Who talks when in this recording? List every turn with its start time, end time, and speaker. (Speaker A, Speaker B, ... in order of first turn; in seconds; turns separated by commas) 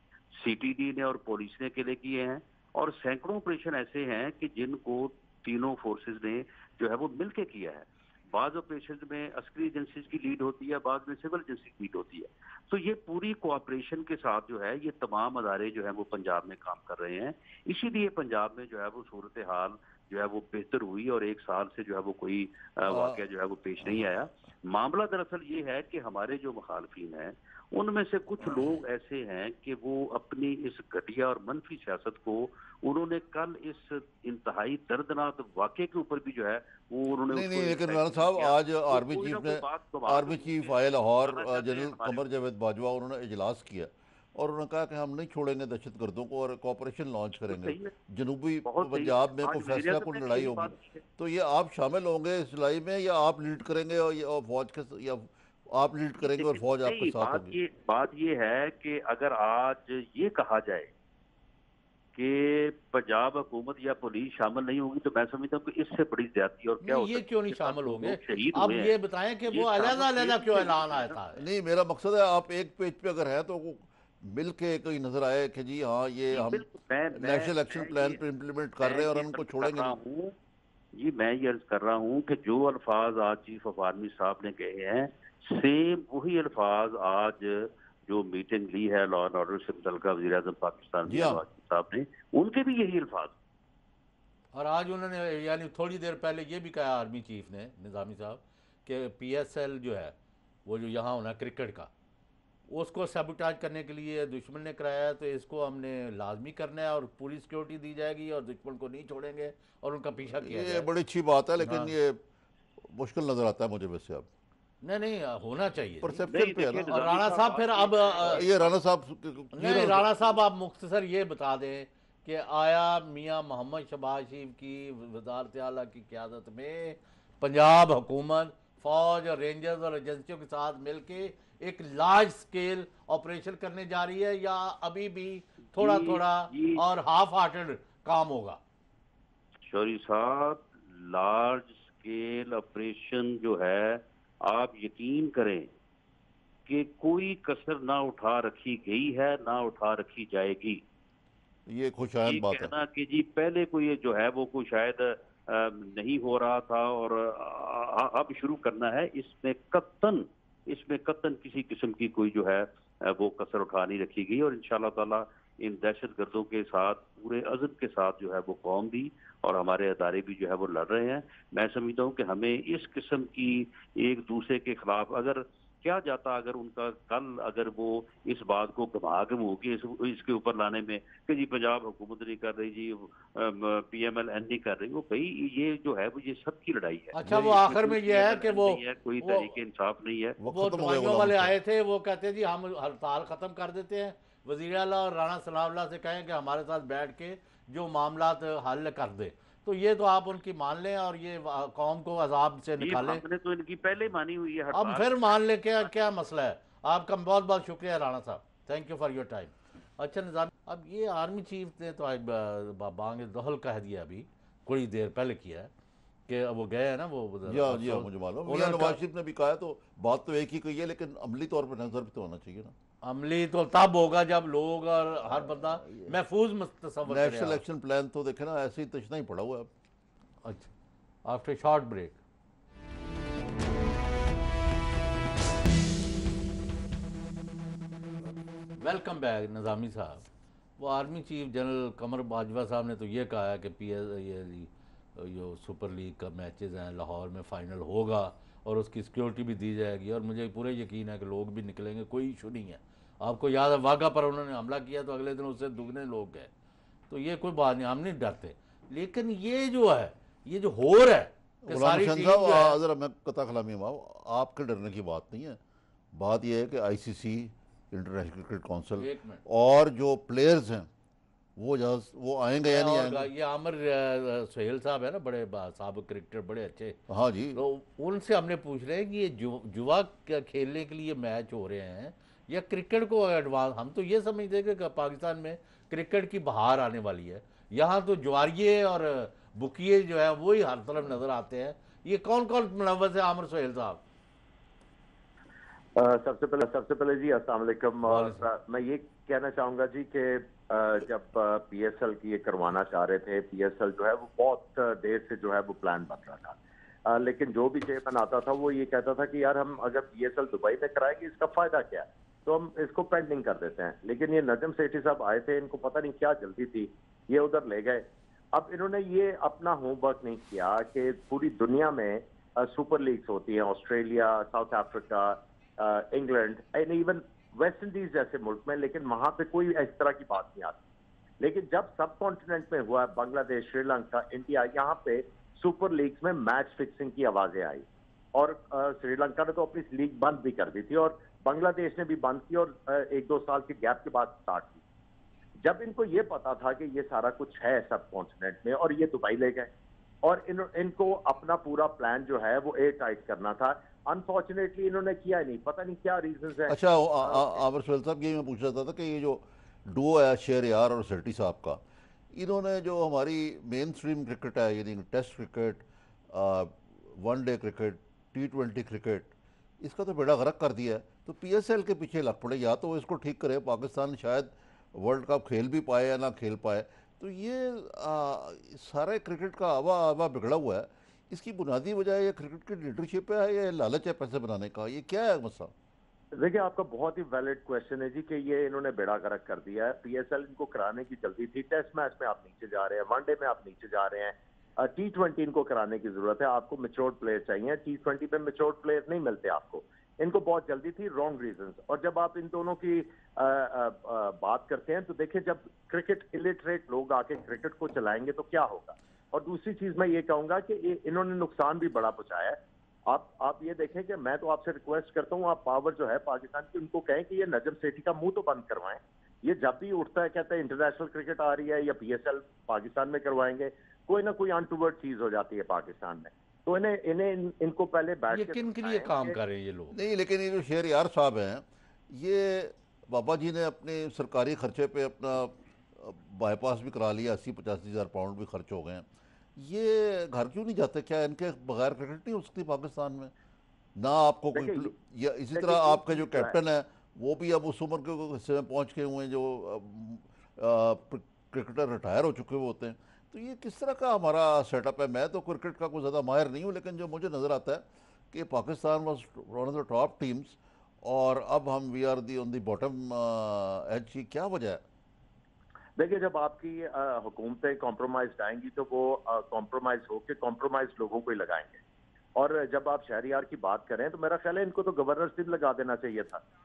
Speaker A: 0.3-40.7, Speaker B: 22.9-23.2, Speaker B: 37.3-57.5, Speaker A: 41.2-42.2, Speaker A: 47.5-47.9, Speaker A: 48.6-51.0, Speaker A: 56.2-60.9, Speaker A: 62.1-68.9, Speaker C: 66.8-71.4, Speaker A: 69.5-70.8, Speaker B: 70.9-79.9, Speaker A: 76.3-78.2, Speaker A: 78.8-80.3, Speaker A: 80.9-93.3, Speaker B: 91.1-91.4, Speaker C: 94.5-100.1, Speaker C: 100.7-101.9, Speaker C: 102.7-110.9, Speaker B: 110.4-112.2, Speaker C: 111.6-111.9, Speaker B: 112.8-114.3, Speaker C: 114.8-116.3, Speaker B: 116.0-117.0, Speaker A: 116.3-118.7, Speaker C: 116.9-118.5, Speaker B: 118.2-120.0, Speaker C: 119.5-138.6, Speaker A: 135.8-136.8, Speaker A: 139.7-145.7, Speaker A: 146.7-150.8, Speaker B: 151.7-152.7, Speaker A: 152.2-190.4, Speaker C: 187.1-189.5, Speaker B: 187.2-187.6, Speaker B: 190.4-191.5, Speaker C: 190.5-203.2, Speaker A: 202.8-205.2, Speaker C: 204.7-215.7, Speaker C: 216.3-219.0, Speaker B: 217.5-222.7, Speaker C: 223.0-227.6, Speaker B: 225.3-226.1, Speaker B: 227.0-229.7, Speaker C: 230.4-230.7, Speaker C: 231.2-232.2, Speaker C: 238.8-240.2, Speaker C: 240.8-256.5, Speaker C: 257.1-262.8, Speaker B: 261.6-265.6, Speaker B: 266.1-270.9, Speaker C: 269.0-269.4, Speaker B: 271.6-273.3, Speaker C: 272.7-277.0, Speaker B: 277.1-277.6, Speaker C: 277.6-294.0, Speaker D: 295.9-330.8, Speaker C: 298.1-298.4, Speaker D: 331.4-344.8, Speaker D: 345.6-349.7, Speaker D: 350.2-357.6, Speaker B: 356.7-361.8, Speaker B: 362.3-385.7, Speaker D: 386.4-429.4, Speaker C: 428.3-429.9, Speaker B: 429.9-443.3, Speaker B: 444.0-464.8, Speaker D: 444.5-444.9, Speaker D: 445.5-446.5, Speaker D: 466.0-471.8, Speaker D: 472.4-476.4